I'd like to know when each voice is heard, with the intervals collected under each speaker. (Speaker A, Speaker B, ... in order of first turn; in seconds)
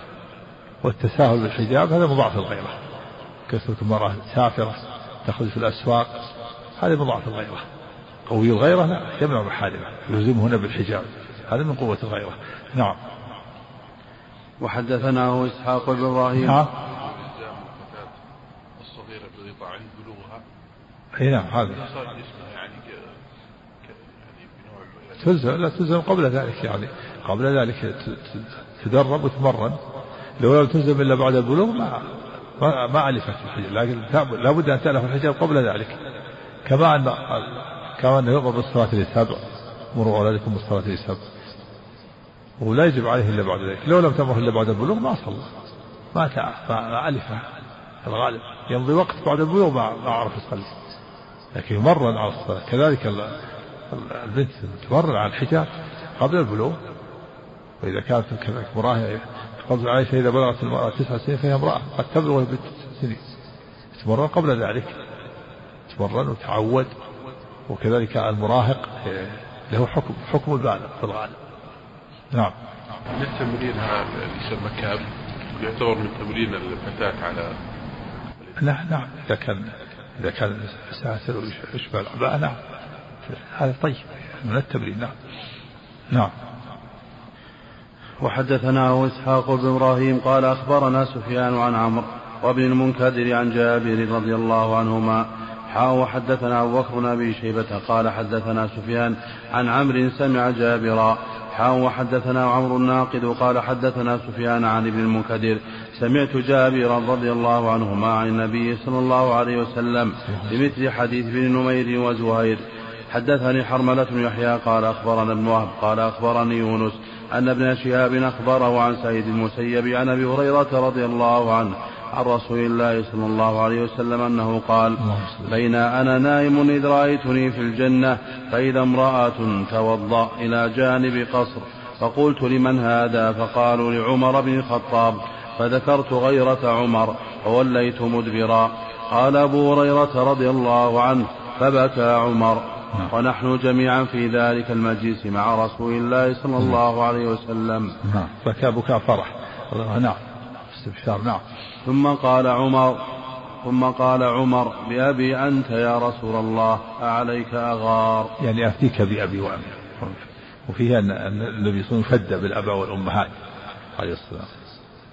Speaker A: 0.8-2.8, 3.5-6.2, 6.8-7.7, 8.3-13.0, 16.4-16.7, 21.2-21.8, 25.2-29.8, 30.4-36.0, 36.6-39.4, 39.9-41.2, 42.6-45.5, 46.1-47.5, 48.0-50.7, 51.5-53.4, 53.9-56.8, 57.8-63.2, 64.0-65.0, 65.9-66.9, 67.7-71.4, 78.6-82.6, 83.3-85.1, 110.3-110.6, 125.0-125.5, 148.0-151.4, 158.4-163.3, 164.0-164.5
Speaker B: 14.6-16.7, 88.2-148.0, 151.9-158.3
Speaker C: 16.7-18.2, 18.8-20.4, 21.6-23.1, 23.8-25.5, 73.1-77.6